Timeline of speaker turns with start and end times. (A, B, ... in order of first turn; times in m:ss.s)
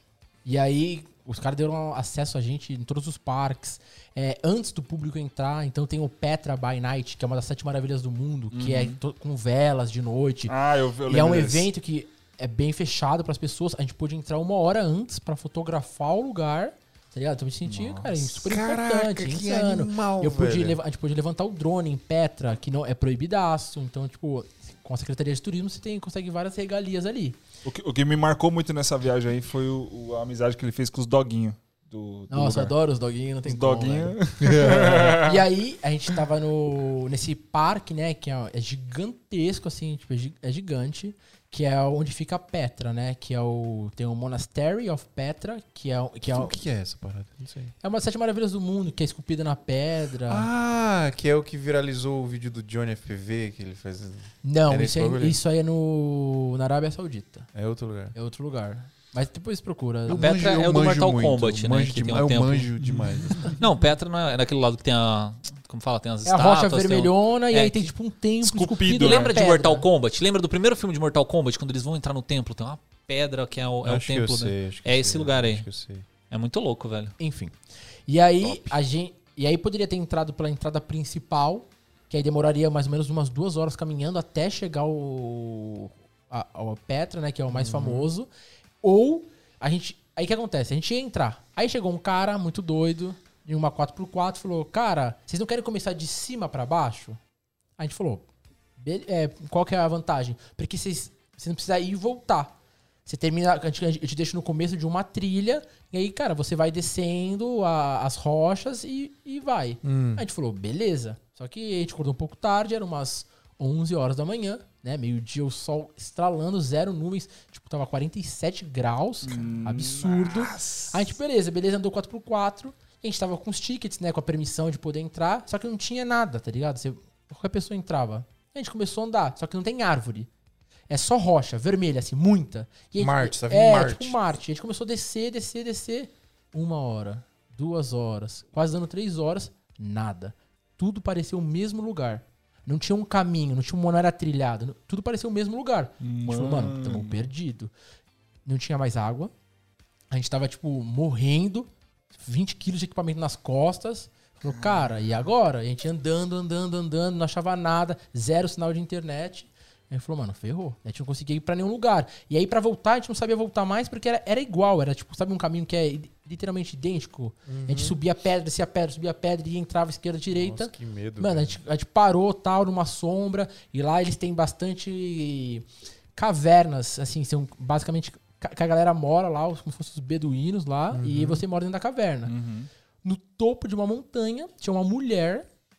0:00.4-0:10.6 A
0:08.5-0:09.0 B
0:10.5-0:11.7 B
0:11.1-0:27.4 A
0:17.7-0:18.2 B
0:18.3-0:20.8 C
0:27.6-0:32.7 B
0:32.3-0:46.6 A
0:33.4-0:35.5 B
0:34.4-0:35.1 C
0:46.3-0:47.7 C
0:47.8-0:50.5 A
0:50.3-0:55.4 C
0:54.4-0:57.5 A
0:57.5-0:58.2 C
0:58.1-1:00.3 A
1:00.1-1:03.6 C
1:00.1-1:02.7 D
1:02.8-1:03.1 B
1:03.6-1:07.9 D
1:06.2-1:09.9 A
1:08.4-1:09.3 B
1:08.9-1:15.7 D
1:13.8-1:16.1 C
1:16.3-1:17.2 D
1:17.2-1:17.6 A
1:18.1-1:28.3 A
1:18.4-1:18.8 C
1:27.5-1:28.1 C
1:28.8-1:37.2 A
1:37.8-1:38.3 A
1:38.8-1:42.5 A
1:43.1-2:10.3 A
1:49.8-1:50.2 C
1:59.2-2:01.1 B
2:10.9-2:27.7 A
2:13.0-2:14.2 C
2:26.0-2:27.2 B
2:28.4-2:29.3 A
2:30.1-3:02.3 A
2:34.5-2:34.9 B
2:47.5-2:48.0 C
2:50.3-2:51.6 C
3:00.9-3:01.4 C
3:02.3-3:02.7 B
3:03.0-3:05.5 A